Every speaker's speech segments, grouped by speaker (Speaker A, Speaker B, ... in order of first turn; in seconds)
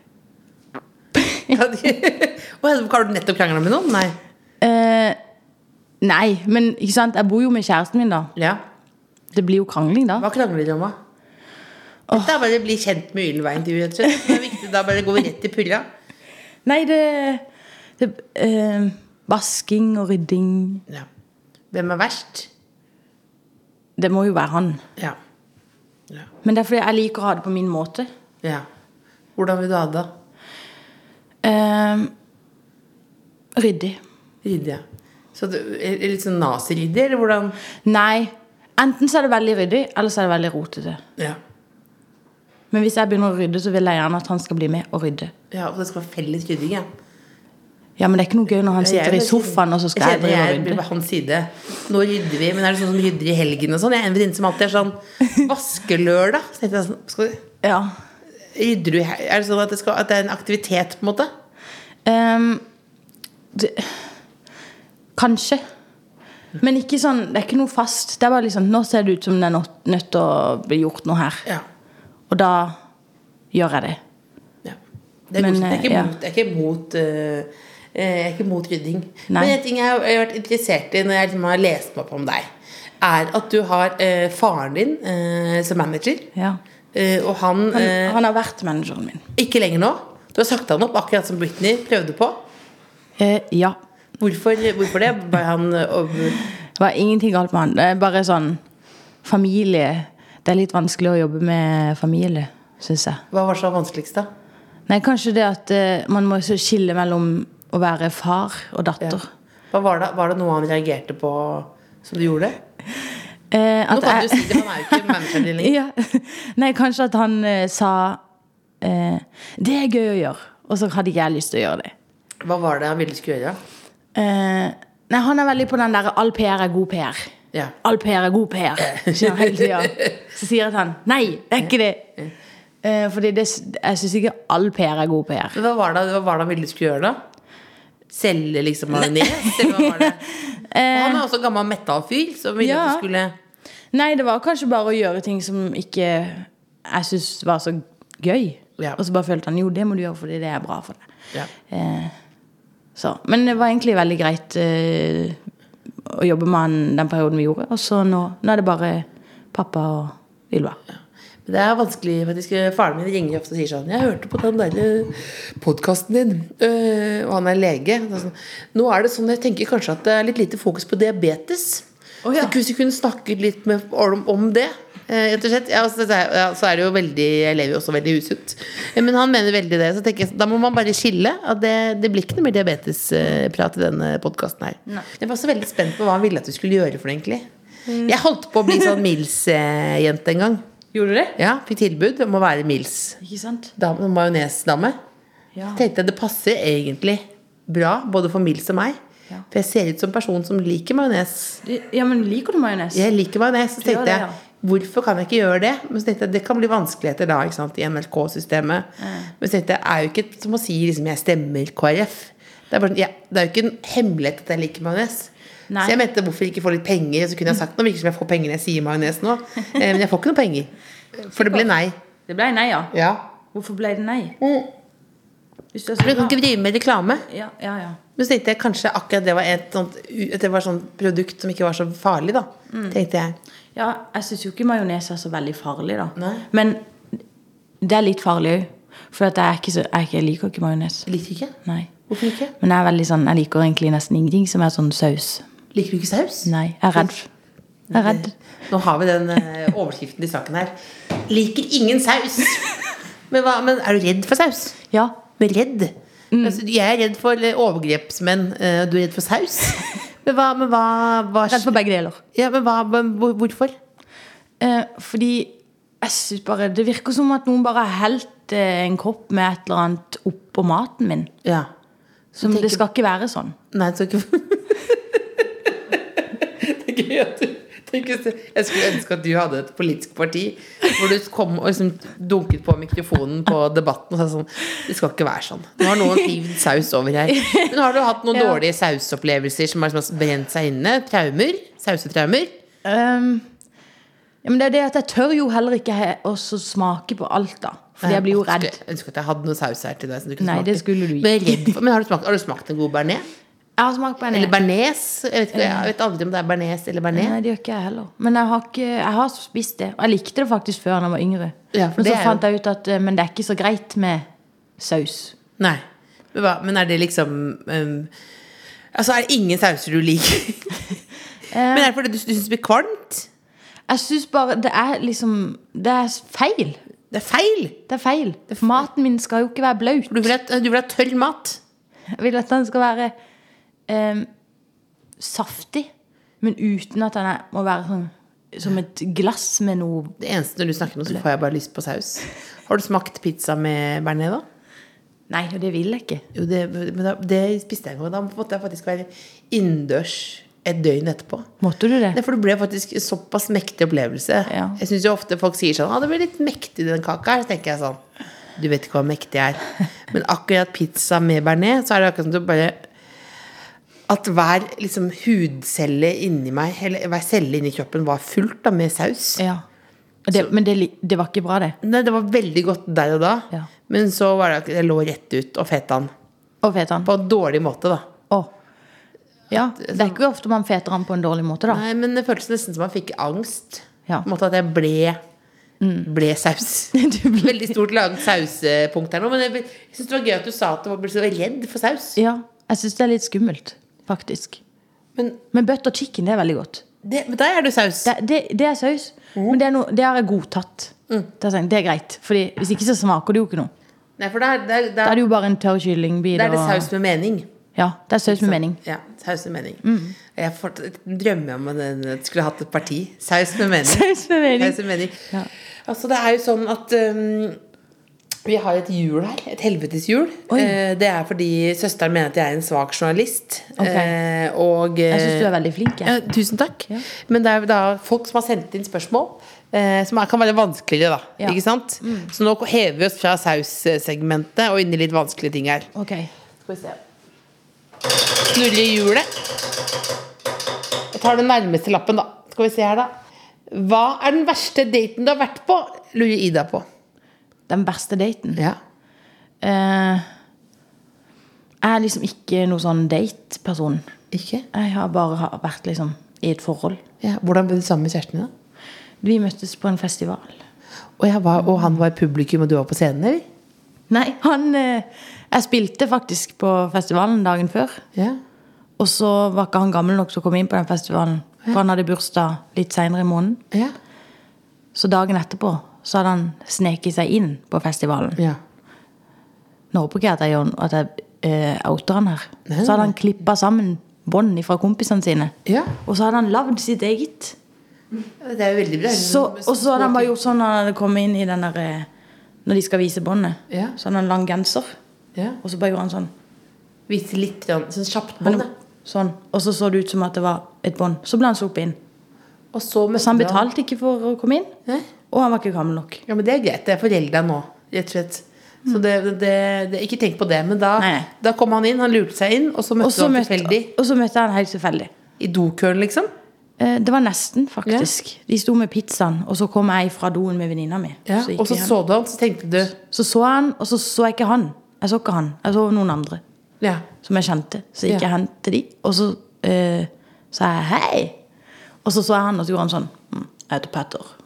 Speaker A: 1.1-1.5, 4.6-5.2, 6.0-8.3, 9.3-10.3, 16.6-17.4, 18.0-20.8, 24.0-24.8, 26.4-28.1, 31.4-32.1, 33.5-34.0, 37.8-41.0, 42.7-45.3, 48.0-50.8, 57.6-57.9, 62.0-62.6, 63.5-64.1, 65.2-65.6, 66.6-71.5, 72.3-72.8, 73.5-74.0, 75.4-76.1, 79.3-79.5, 86.3-86.6, 87.7-89.2, 93.2-93.8, 96.8-98.6, 99.2-103.2, 104.9-109.3, 113.5-118.2, 118.8-121.9, 124.1-132.1, 132.8-135.6, 139.0-141.2, 142.6-143.0, 143.9-151.1, 151.7-152.1, 152.9-155.4, 156.0-160.8, 172.2-172.6, 188.7-188.9, 190.9-191.3, 193.2-193.7, 195.5-195.8, 201.6-203.0, 203.8-204.4, 209.0-209.3, 215.7-216.0, 222.3-222.9, 223.5-224.4, 225.7-226.4, 227.3-228.0, 232.7-233.0, 233.7-237.2, 237.8-241.1, 241.6-241.9, 242.6-245.4, 246.4-247.3, 247.9-248.3, 254.9-255.2, 256.3-256.6, 261.5-262.2, 264.6-271.3, 272.4-273.6, 287.3-287.7, 288.3-288.6, 292.8-293.5, 294.4-298.8, 300.4-301.8, 303.8-304.5, 305.5-305.9, 307.1-314.2, 314.8-315.3, 321.5-321.9, 323.9-326.8, 327.9-330.3, 332.1-333.1, 333.9-334.3, 335.2-335.9, 336.4-340.2, 345.3-346.2, 351.6-352.2, 354.5-354.8, 369.4-369.6, 370.2-371.8, 376.6-377.1, 379.5-381.8, 385.8-386.1, 386.9-387.7, 392.2-394.6, 395.5-396.8, 398.0-403.7, 405.0-406.9, 407.8-408.8, 409.8-410.2, 413.8-415.5, 420.5-420.8, 423.8-424.1, 425.1-426.1, 431.4-432.3, 435.9-436.3, 447.7-448.6, 449.6-450.3, 451.8-454.0, 454.7-457.0, 459.2-460.6, 464.1-468.0, 469.0-473.6, 474.9-478.4, 479.9-487.6, 489.1-492.1, 492.6-495.0, 495.6-496.3, 498.4-502.0, 503.2-504.7, 505.3-506.2, 511.0-511.3, 513.0-515.1, 516.8-521.9, 523.0-526.4, 527.2-531.4, 532.0-534.3
Speaker B: 1.5-4.2, 8.3-8.6, 10.2-10.9, 12.1-15.9, 21.7-22.5, 29.4-30.1, 34.4-34.8, 35.3-37.6, 45.5-46.9, 48.8-57.4, 58.5-61.3, 75.3-82.5, 83.0-86.3, 86.9-88.2, 89.3-92.4, 94.2-96.4, 103.3-104.3, 109.7-112.6, 113.9-115.7, 122.4-123.6, 128.8-130.1, 131.6-132.3, 135.5-137.2, 138.1-140.2, 140.9-143.3, 160.9-190.6, 191.4-193.2, 193.8-195.0, 195.7-199.0, 199.5-201.6, 202.9-221.9, 222.9-223.3, 224.4-224.7, 226.0-227.2, 228.2-233.4, 236.2-236.4, 241.1-241.6, 242.1-242.5, 245.7-247.1, 247.9-252.8, 253.3-254.8, 255.4-261.7, 262.3-263.8, 271.4-271.7, 272.3-272.8, 273.7-292.6, 298.0-303.3, 304.3-307.4, 311.7-312.4, 315.6-318.1, 318.9-320.8, 321.7-323.3, 327.1-327.8, 330.1-331.6, 340.2-344.4, 346.3-351.5, 352.1-358.0, 358.6-362.9, 364.1-369.4, 371.8-376.1, 377.0-378.1, 379.5-380.2, 381.7-385.2, 386.0-392.2, 397.0-398.1, 399.3-399.6, 404.2-405.2, 406.3-407.5, 408.3-415.3, 415.9-417.6, 418.4-425.5, 426.0-435.9, 436.6-437.0, 438.3-439.3, 441.1-443.1, 443.7-446.8, 454.3-454.6, 457.2-458.5, 461.2-463.4, 468.1-468.4, 482.7-483.1, 485.6-485.9, 488.4-490.3, 493.7-493.9, 495.3-495.6, 497.1-498.7, 502.7-503.7, 506.3-513.9, 515.4-516.3, 521.2-522.9, 526.8-527.0